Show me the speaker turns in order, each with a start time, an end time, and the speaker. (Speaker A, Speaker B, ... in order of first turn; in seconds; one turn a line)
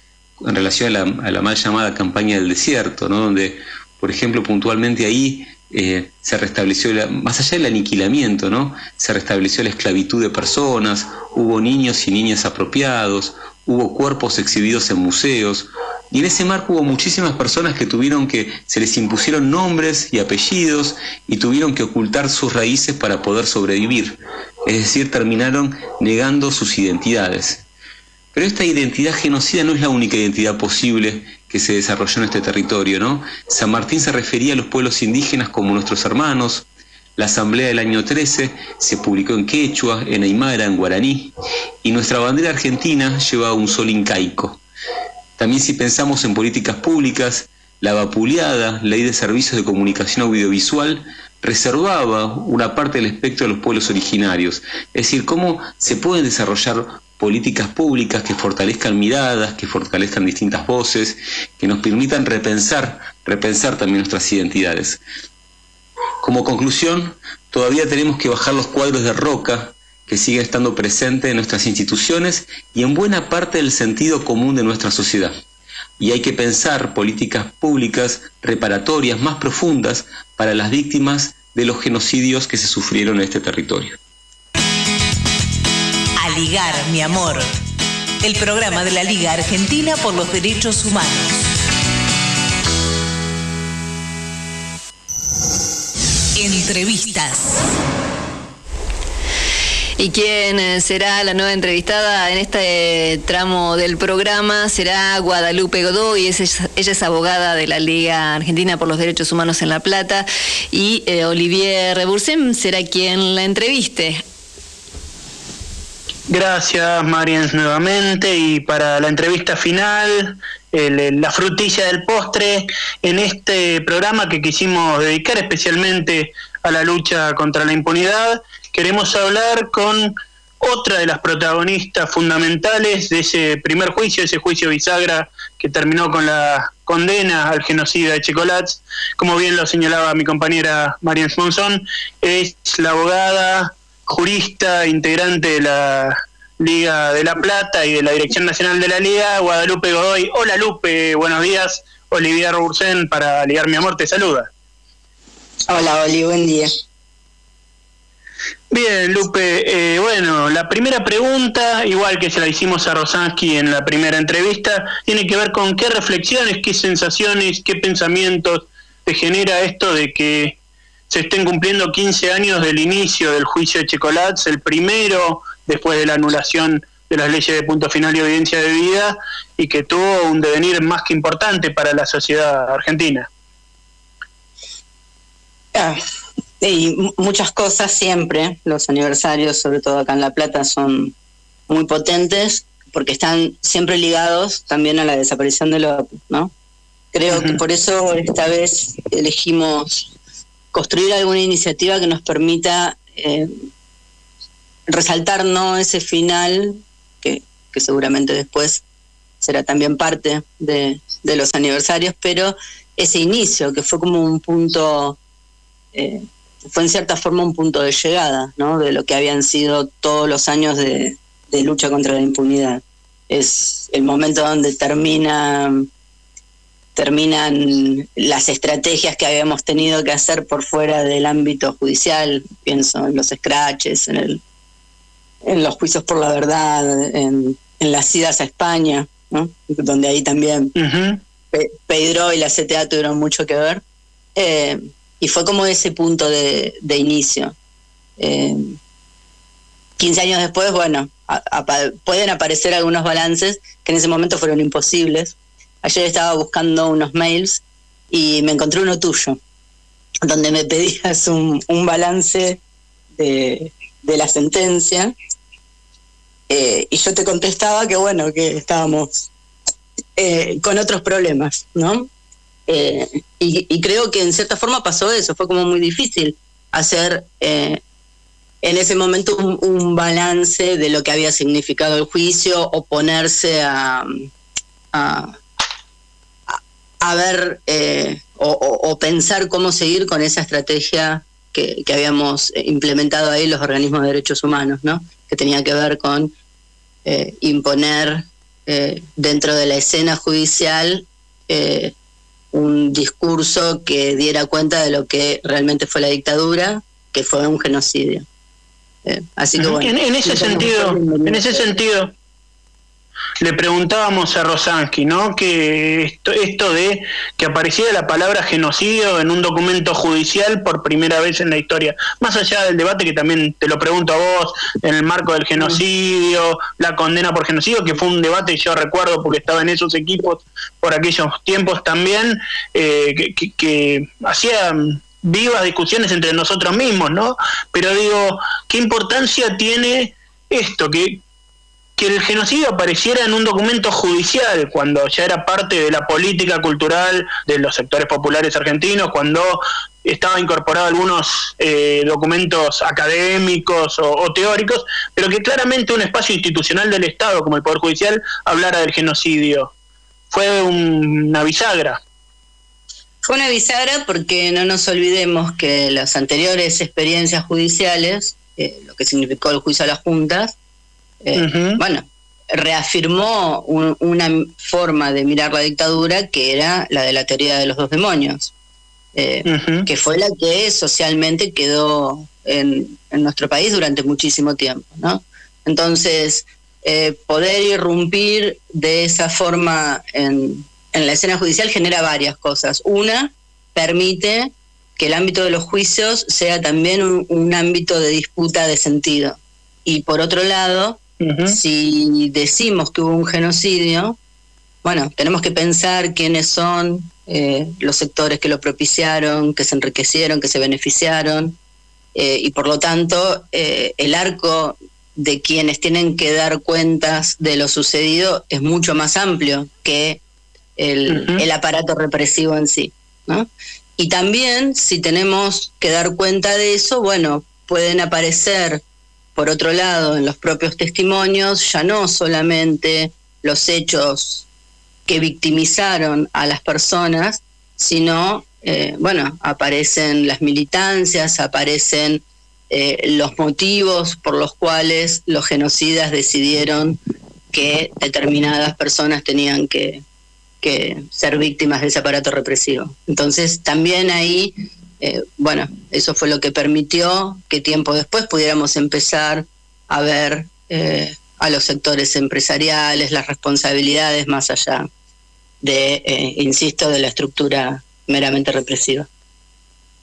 Speaker A: 0.4-27.6
Speaker A: 28.3-36.6
Speaker A: 37.2-41.3
Speaker A: 41.8-44.6
Speaker A: 45.4-65.0
Speaker A: 66.2-75.3
Speaker A: 76.0-84.0
Speaker B: 86.2-87.5
Speaker B: 88.2-91.5
Speaker B: 96.4-97.7
Speaker C: 100.0-114.2
Speaker D: 116.3-154.5
Speaker E: 155.7-156.7
Speaker D: 158.7-170.6
Speaker D: 171.1-183.3
Speaker E: 186.6-191.1
Speaker E: 191.7-196.5
Speaker E: 197.1-200.1
Speaker D: 197.3-197.6
Speaker E: 200.7-203.7
Speaker E: 204.9-208.8
Speaker E: 209.4-215.2
Speaker E: 215.9-225.8
Speaker E: 226.9-234.4
Speaker E: 235.4-240.7
Speaker D: 240.8-241.2
Speaker E: 241.5-243.8
Speaker E: 244.3-247.5
Speaker E: 248.2-248.8
Speaker E: 250.0-257.6
Speaker E: 258.1-259.4
Speaker E: 260.2-262.6
Speaker E: 263.2-265.1
Speaker E: 266.5-269.1
Speaker E: 270.2-272.1
Speaker E: 272.7-277.8
Speaker E: 278.6-284.3
Speaker E: 284.9-285.4
Speaker E: 286.5-296.3
Speaker E: 297.1-301.9
Speaker E: 302.5-308.2
Speaker E: 309.1-311.7
Speaker D: 309.6-312.1
Speaker D: 313.4-341.2
Speaker D: 342.0-359.7
Speaker D: 360.3-362.0
Speaker E: 363.2-370.5
Speaker E: 371.2-378.5
Speaker D: 371.4-371.8
Speaker E: 379.1-404.1
Speaker D: 379.4-379.9
Speaker D: 401.2-401.6
Speaker E: 404.8-411.6
Speaker E: 412.1-420.2
Speaker E: 420.8-423.5
Speaker D: 421.1-421.4
Speaker E: 424.0-428.8
Speaker E: 429.4-434.4
Speaker E: 435.1-447.0
Speaker E: 447.5-450.0
Speaker E: 450.6-464.9
Speaker E: 465.6-469.1